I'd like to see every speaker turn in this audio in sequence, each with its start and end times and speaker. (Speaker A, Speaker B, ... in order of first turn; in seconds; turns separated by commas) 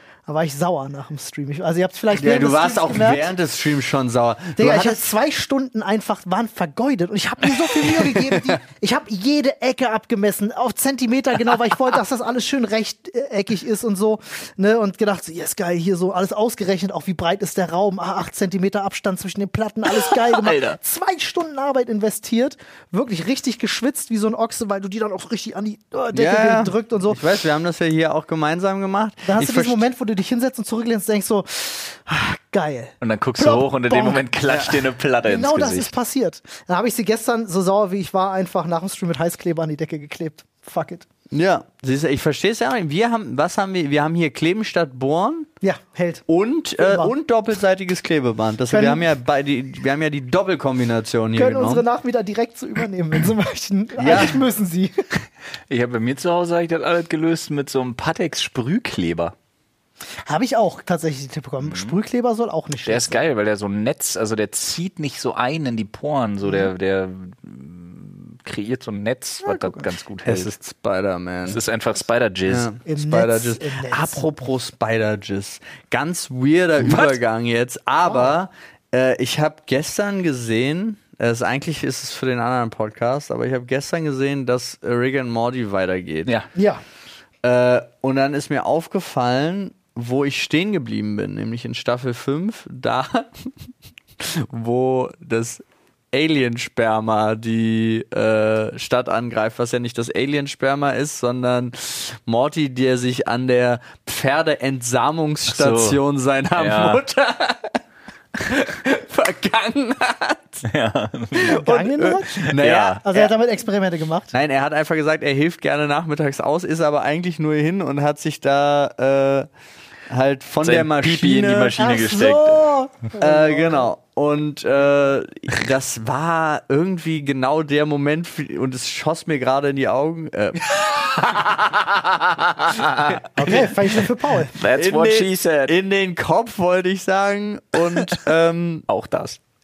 Speaker A: 0.3-3.3, Speaker B: 2.1-5.0, Speaker A: 4.6-27.2, Speaker B: 7.6-8.6, Speaker C: 19.9-20.8, Speaker B: 26.1-29.8, Speaker A: 29.2-34.2, Speaker C: 33.0-35.9, Speaker B: 34.5-34.8, Speaker A: 35.2-41.0, Speaker B: 41.3-45.5, Speaker A: 45.6-46.2, Speaker B: 46.3-51.8, Speaker A: 46.8-47.1, Speaker A: 48.7-49.1, Speaker A: 51.4-55.1, Speaker B: 54.0-54.4, Speaker C: 55.7-59.3, Speaker A: 60.2-63.2, Speaker C: 61.6-61.9, Speaker C: 62.9-70.5, Speaker A: 66.4-66.7, Speaker A: 69.4-69.8, Speaker B: 70.2-71.6, Speaker C: 71.5-72.7, Speaker B: 72.5-86.3, Speaker A: 72.8-74.2, Speaker C: 76.8-77.2, Speaker A: 86.5-86.8, Speaker B: 87.4-93.5, Speaker B: 94.2-107.8, Speaker C: 105.5-106.0, Speaker C: 106.5-107.0, Speaker B: 108.4-110.6, Speaker C: 110.6-111.6, Speaker B: 111.4-113.3, Speaker A: 111.4-114.3, Speaker C: 112.5-113.0, Speaker B: 114.3-119.5, Speaker B: 120.1-121.8, Speaker C: 120.6-122.7, Speaker A: 121.8-123.9, Speaker B: 123.2-130.7, Speaker C: 130.8-133.7, Speaker A: 133.3-134.6, Speaker C: 134.5-135.7, Speaker B: 134.7-138.8, Speaker C: 138.9-139.4